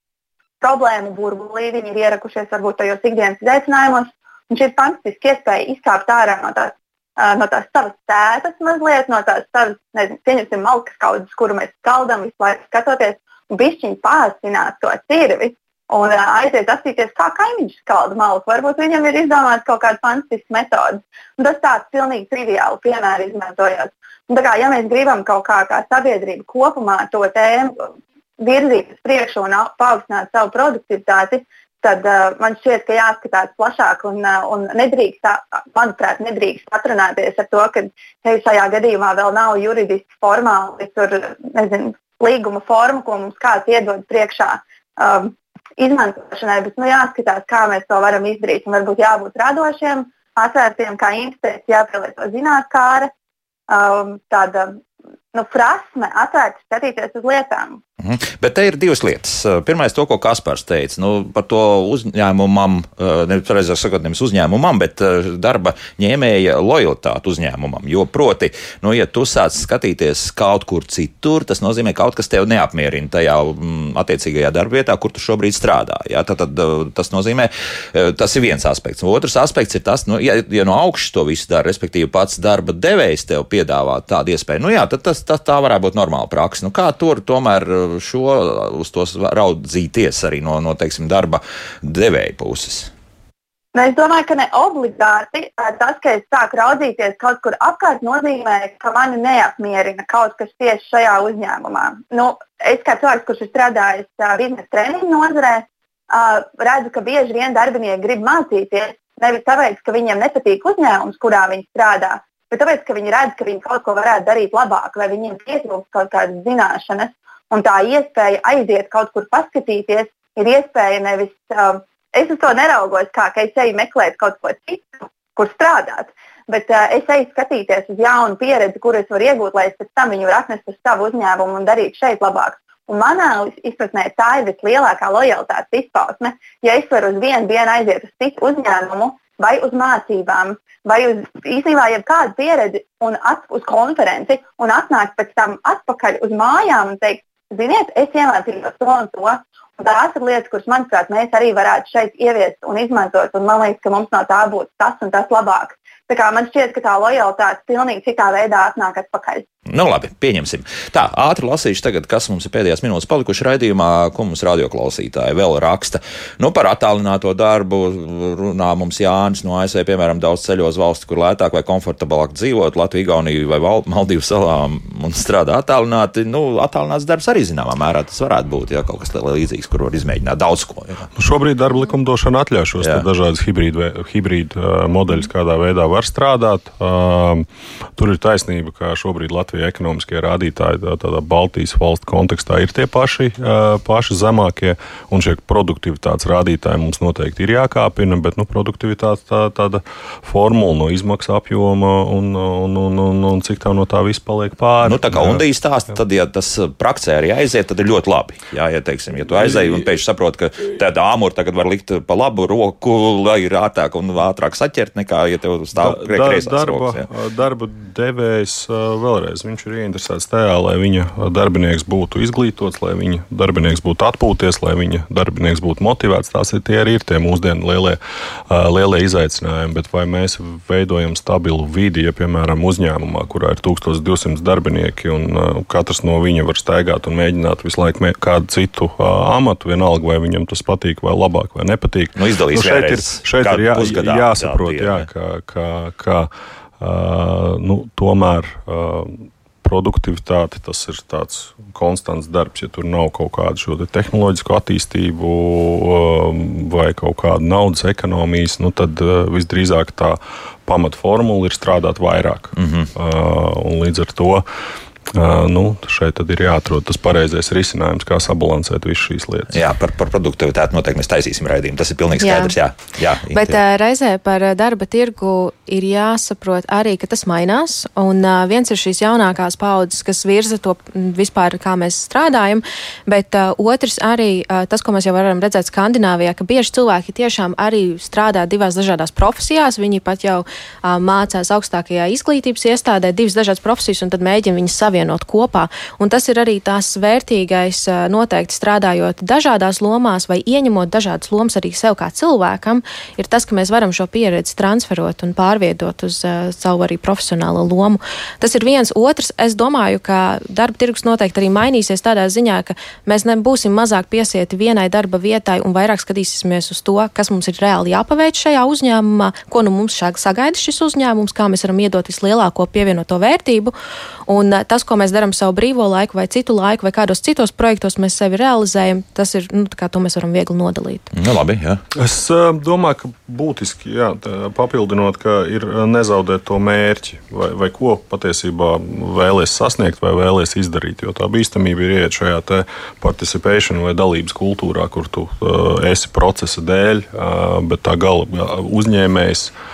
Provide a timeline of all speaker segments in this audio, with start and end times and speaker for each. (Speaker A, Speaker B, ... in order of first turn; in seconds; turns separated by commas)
Speaker A: 0.6-27.9, Speaker A: 28.4-53.1, Speaker A: 53.7-54.8, Speaker A: 55.3-57.8, Speaker B: 58.0-92.9, Speaker A: 93.7-159.4, Speaker B: 159.7-181.1, Speaker C: 181.2-205.4, Speaker B: 182.8-183.1, Speaker B: 204.8-217.1, Speaker C: 209.4-209.8, Speaker C: 215.8-228.0, Speaker C: 228.5-264.4, Speaker B: 242.2-245.1, Speaker B: 262.6-262.9, Speaker C: 265.1-269.6, Speaker B: 269.5-273.6, Speaker D: 272.2-272.6, Speaker D: 273.3-323.7, Speaker D: 324.3-331.1, Speaker B: 331.1-331.8, Speaker C: 331.9-349.5